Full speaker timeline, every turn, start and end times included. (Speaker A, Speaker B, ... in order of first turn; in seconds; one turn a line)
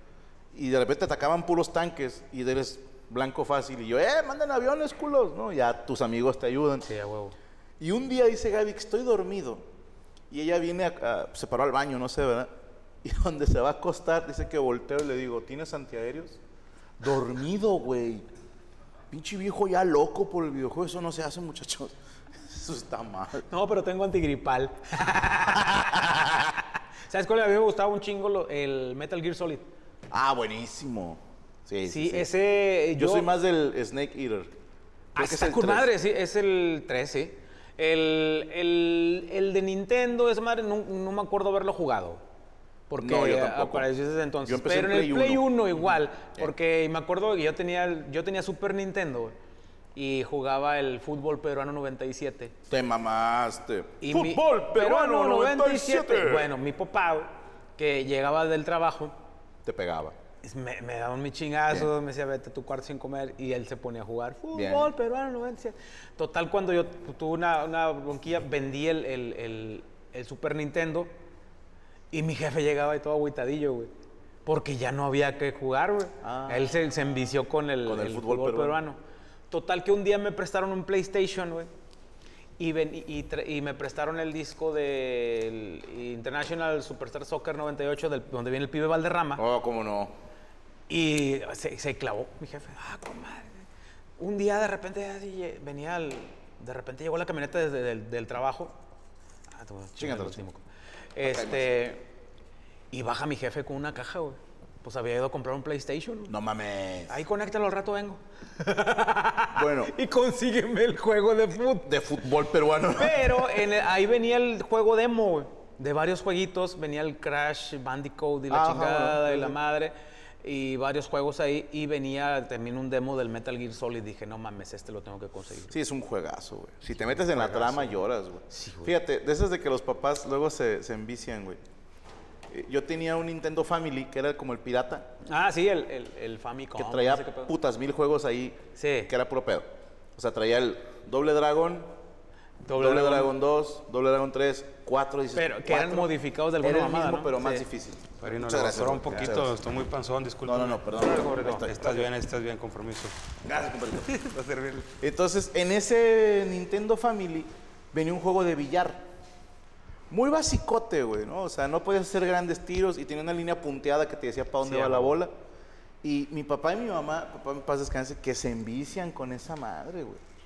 Speaker A: 0.5-6.9
Speaker B: 6.9-7.4
Speaker A: 7.8-9.6
Speaker A: 10.3-12.5
Speaker A: 13.0-16.4
Speaker A: 17.0-18.3
Speaker A: 19.1-23.5
Speaker B: 23.5-26.0
Speaker A: 25.8-26.5
Speaker B: 27.1-29.7
Speaker A: 30.1-32.3
Speaker B: 31.9-33.3
Speaker A: 33.0-34.5
Speaker B: 35.1-42.2
Speaker A: 35.2-35.9
Speaker B: 42.9-49.4
Speaker A: 43.0-43.9
Speaker A: 44.5-45.5
Speaker B: 50.0-52.5
Speaker A: 52.7-56.5
Speaker B: 54.0-59.1
Speaker A: 59.6-60.2
Speaker B: 60.4-71.1
Speaker A: 64.5-64.9
Speaker B: 72.1-73.9
Speaker B: 74.5-79.0
Speaker A: 76.2-76.7
Speaker A: 77.8-78.8
Speaker B: 79.5-81.7
Speaker B: 82.6-89.4
Speaker A: 89.4-90.1
Speaker B: 90.9-93.7
Speaker B: 94.2-98.7
Speaker B: 99.5-100.6
Speaker A: 100.0-100.4
Speaker B: 101.2-102.0
Speaker A: 101.2-101.8
Speaker B: 102.9-106.3
Speaker A: 106.3-107.2
Speaker B: 107.1-112.0
Speaker A: 109.5-109.9
Speaker A: 111.8-113.5
Speaker B: 112.9-125.8
Speaker A: 118.5-119.6
Speaker A: 125.7-131.6
Speaker B: 127.2-128.0
Speaker B: 128.5-128.9
Speaker A: 132.5-135.1
Speaker B: 135.2-137.5
Speaker A: 136.8-141.9
Speaker B: 138.8-139.1
Speaker B: 142.7-143.3
Speaker A: 142.8-149.5
Speaker B: 145.3-147.7
Speaker C: 148.2-150.8
Speaker A: 150.4-152.1
Speaker B: 150.9-151.7
Speaker C: 151.6-153.2
Speaker A: 153.4-154.1
Speaker B: 154.4-154.7
Speaker A: 155.0-159.1
Speaker A: 160.1-165.3
Speaker B: 164.6-165.2
Speaker A: 166.0-170.2